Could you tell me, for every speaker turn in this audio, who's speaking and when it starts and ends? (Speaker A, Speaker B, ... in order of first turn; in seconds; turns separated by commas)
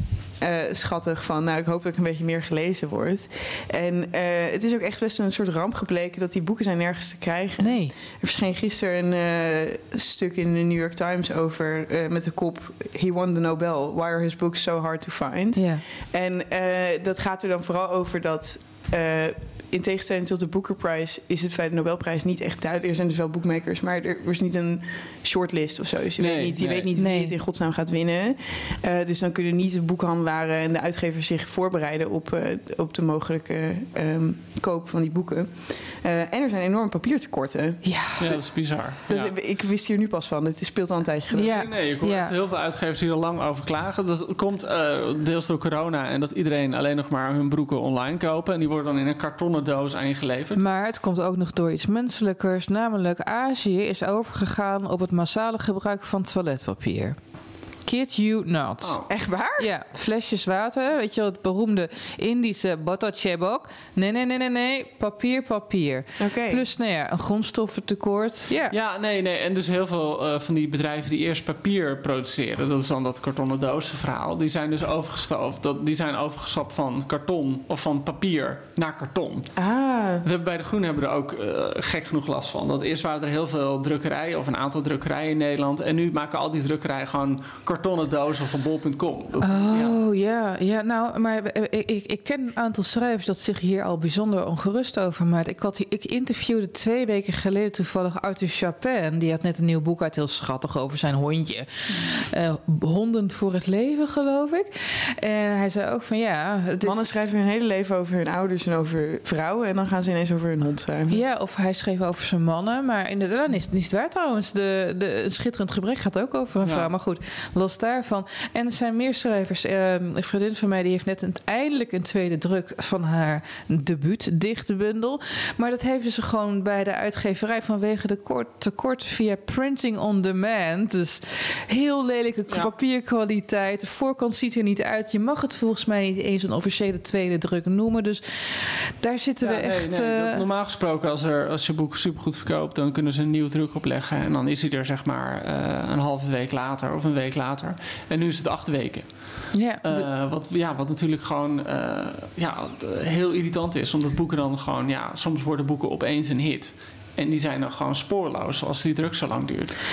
Speaker A: 0.4-37.9, Speaker B: 7.6-7.9, Speaker B: 15.6-15.8, Speaker C: 26.2-26.9, Speaker B: 27.0-27.3, Speaker B: 37.8-38.2, Speaker C: 38.2-39.3, Speaker A: 39.1-41.6, Speaker B: 41.3-42.4, Speaker C: 41.4-50.6, Speaker B: 50.5-57.2, Speaker B: 57.9-59.0, Speaker A: 59.1-59.7, Speaker B: 59.6-68.7, Speaker A: 66.2-66.6, Speaker C: 68.7-79.5, Speaker A: 79.6-80.2, Speaker C: 80.2-90.0, Speaker B: 89.4-107.1, Speaker A: 106.8-111.2, Speaker B: 111.1-140.4, Speaker C: 116.6-116.9, Speaker C: 139.4-159.8, Speaker B: 149.5-150.1